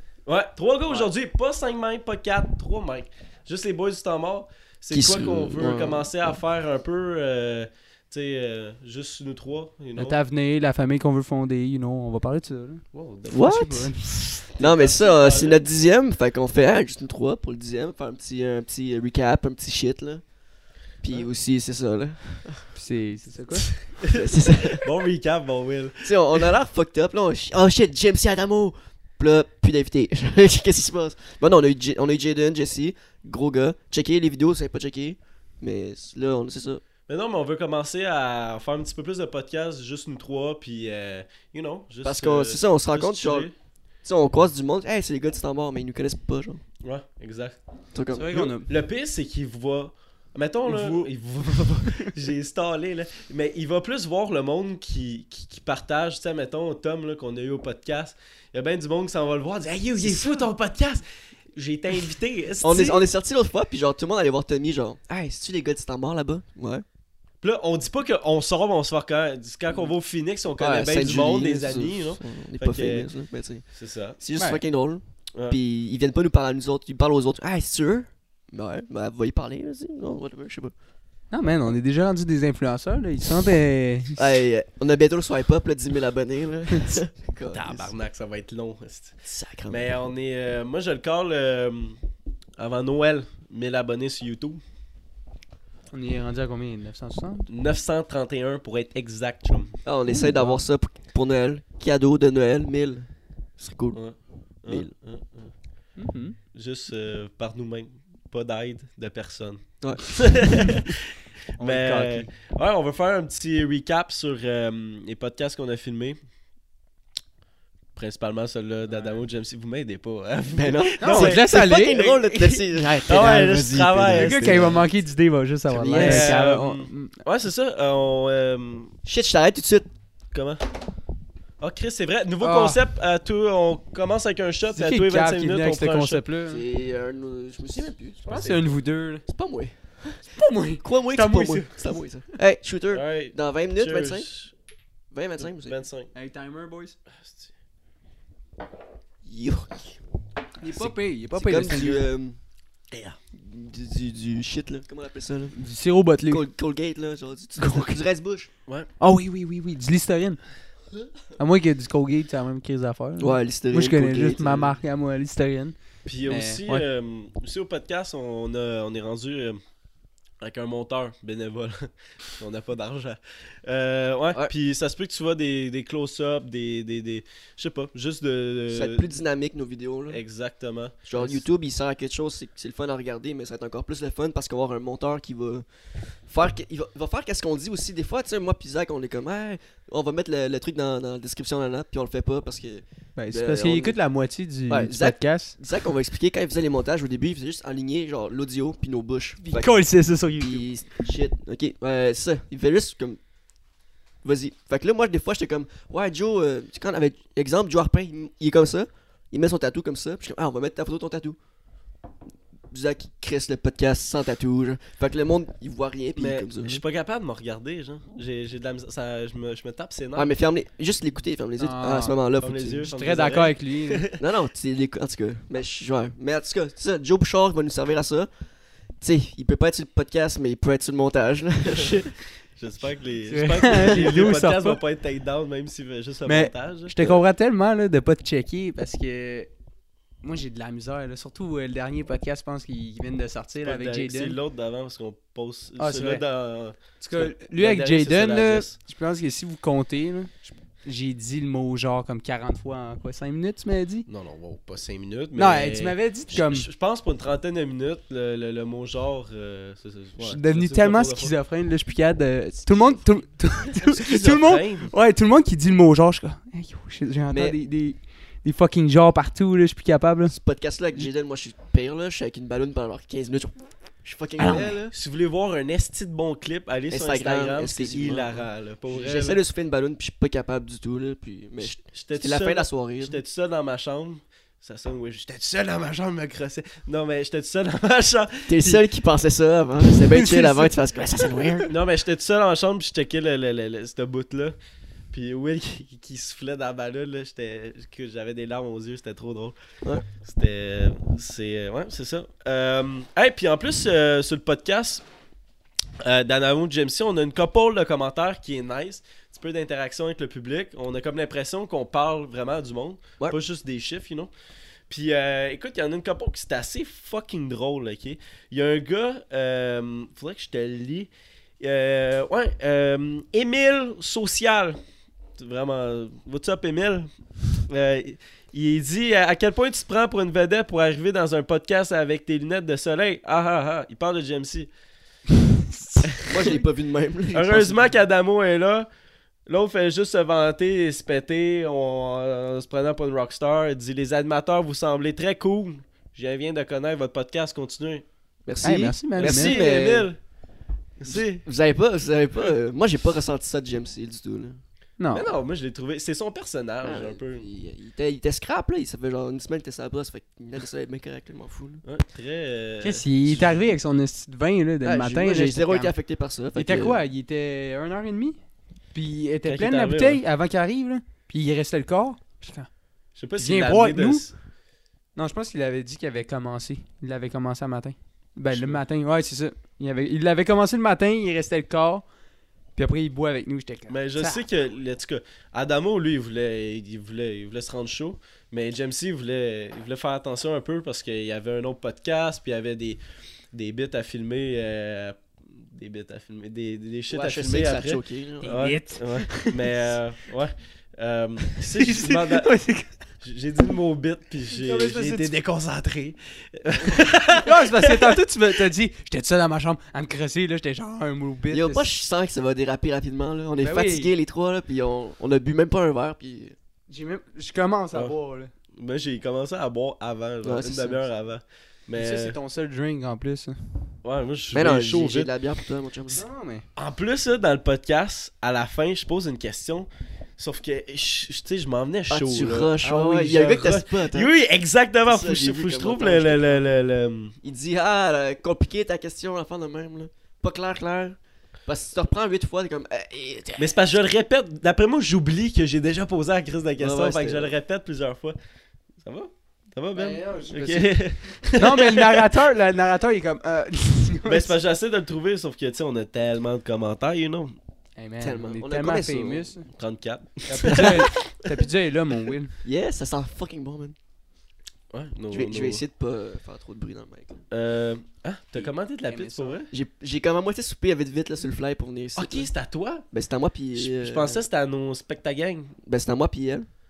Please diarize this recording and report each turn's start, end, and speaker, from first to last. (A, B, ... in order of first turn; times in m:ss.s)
0:00.2-0:10.2 A
0:04.9-0:06.0 B
0:10.0-0:14.4 C
0:12.9-0:13.6 A
0:13.3-0:13.9 B
0:14.4-0:15.6 A
0:14.5-0:20.2 B
0:21.0-0:22.7 B
0:22.7-0:23.7 C
0:23.6-0:24.9 B
0:24.0-0:26.5 A
0:26.0-0:36.8 B
0:37.1-0:43.5 A
0:42.0-0:43.5 B
0:44.0-0:46.6 B
0:46.8-0:47.6 A
0:47.9-0:48.4 B
0:48.1-0:48.7 C
0:48.3-1:03.0 A
0:50.6-0:51.1 C
1:02.6-1:06.8 B
1:07.4-1:13.1 A
1:10.6-1:20.7 B
1:13.7-1:14.2 A
1:21.3-1:24.2 C
1:24.2-1:27.9 B
1:27.5-1:29.2 A
1:29.2-1:29.9 B
1:29.7-1:32.0 A
1:32.6-1:34.6 A
1:35.9-1:37.5 C
1:37.5-1:39.8 A
1:39.8-1:44.0 B
1:40.1-1:40.6 C
1:43.9-1:45.5 A
1:46.0-1:46.4 C
1:46.5-1:56.2 A
1:49.8-1:50.6 B
1:51.6-1:52.3 C
1:58.0-2:04.8 A
2:00.5-2:04.8 B
2:01.0-2:02.0 C
2:04.1-2:07.2 C
2:05.7-2:06.4 B
2:05.9-2:08.9 A
2:09.0-2:09.9 B
2:10.3-2:10.6 A
2:11.6-2:16.2 A
2:12.4-2:12.8 C
2:14.7-2:16.6 C
2:16.5-2:24.3 B
2:18.3-2:19.2 C
2:20.3-2:22.0 C
2:22.9-2:24.5 A
2:25.1-2:25.8 B
2:25.6-2:26.1 A
2:26.1-2:27.0 C
2:27.2-2:27.5 A
2:29.2-2:30.0 B
2:30.6-2:32.0 C
2:30.6-2:32.4 B
2:32.9-2:33.2 A
2:33.3-2:35.6 B
2:35.5-2:36.4 C
2:36.3-2:38.5 B
2:37.6-2:37.9 C
2:39.0-2:40.4 C
2:41.4-2:45.7 C
2:43.2-2:44.7 B
2:46.0-2:49.6 A
2:46.2-2:46.8 C
2:50.4-2:59.0 A
2:58.7-3:00.2 B
3:00.1-3:01.4 A
3:01.1-3:05.6 B
3:06.2-3:14.0 B
3:13.2-3:15.6 C
3:14.7-3:23.2 B
3:19.4-3:20.6 C
3:24.2-3:31.4 B
3:32.7-3:36.8 B
3:36.2-3:40.3 A
3:40.1-3:42.9 B
3:41.6-3:42.2 C
3:42.4-3:44.2 A
3:42.8-3:44.1 C
3:44.2-3:48.3 B
3:49.0-3:51.9 B
3:52.5-3:57.2 A
3:53.3-3:54.8 C
3:56.2-3:59.5 C
4:00.2-4:04.4 C
4:03.6-4:08.7 A
4:05.8-4:06.2 C
4:07.0-4:14.1 C
4:14.1-4:21.3 A
4:15.4-4:16.7 C
4:20.2-4:30.3 C
4:22.7-4:23.0 B
4:23.8-4:24.9 A
4:27.3-4:27.6 B
4:30.3-4:34.9 B
4:34.4-4:34.7 C
4:34.9-4:39.4 A
4:36.9-4:43.2 B
4:41.6-4:48.8 A
4:48.5-4:51.7 B
4:49.9-4:50.7 C
4:51.7-4:54.6 A
4:55.1-4:59.6 A
5:00.2-5:05.0 A
5:06.0-5:14.3 A
5:14.9-5:24.8 A
5:25.4-5:27.1 A
5:27.6-5:34.7 A
5:35.8-5:36.2 C
5:36.2-5:37.9 B
5:37.3-5:38.9 A
5:39.5-5:48.0 A
5:48.4-5:50.1 B
5:48.6-5:49.6 C
5:49.2-5:50.2 A
5:51.0-5:51.4 A
5:51.0-5:54.6 B
5:55.0-5:55.3 C
5:55.1-5:57.4 A
5:56.8-6:01.8 B
6:01.8-6:03.6 A
6:02.8-6:05.9 C
6:04.8-6:07.0 B
6:06.5-6:08.4 C
6:08.9-6:12.7 C
6:09.4-6:10.2 A
6:13.2-6:14.3 A
6:13.4-6:14.3 C
6:15.1-6:22.0 C
6:18.5-6:18.8 A
6:22.8-6:24.4 C
6:23.9-6:33.0 A
6:33.5-6:42.6 A
6:37.1-6:38.8 B
6:38.4-6:39.9 C
6:41.8-6:43.0 C
6:43.2-6:48.2 A
6:44.6-6:45.3 C
6:47.3-6:51.9 C
6:51.5-6:56.6 B
6:53.6-6:54.1 C
6:56.9-6:58.5 C
6:58.7-7:02.4 A
7:00.4-7:01.0 B
7:02.0-7:03.6 C
7:04.0-7:05.3 A
7:04.5-7:06.2 B
7:06.1-7:06.6 C
7:06.8-7:17.3 A
7:12.1-7:14.3 B
7:15.0-7:16.8 B
7:17.4-7:23.8 B
7:23.6-7:28.4 A
7:26.8-7:27.5 B
7:29.0-7:32.3 A
7:29.9-7:34.5 C
7:34.2-7:37.5 A
7:38.0-7:39.7 C
7:38.2-7:39.5 B
7:39.7-7:41.3 A
7:40.5-7:42.5 C
7:40.6-7:41.1 B
7:42.6-7:44.0 B
7:44.9-7:45.8 A
7:45.3-7:47.4 B
7:47.5-7:49.7 A
7:48.6-7:49.6 C
7:49.7-7:52.5 B
7:52.1-7:53.0 A
7:53.1-7:54.4 B
7:53.7-7:55.7 A
7:55.8-7:56.7 B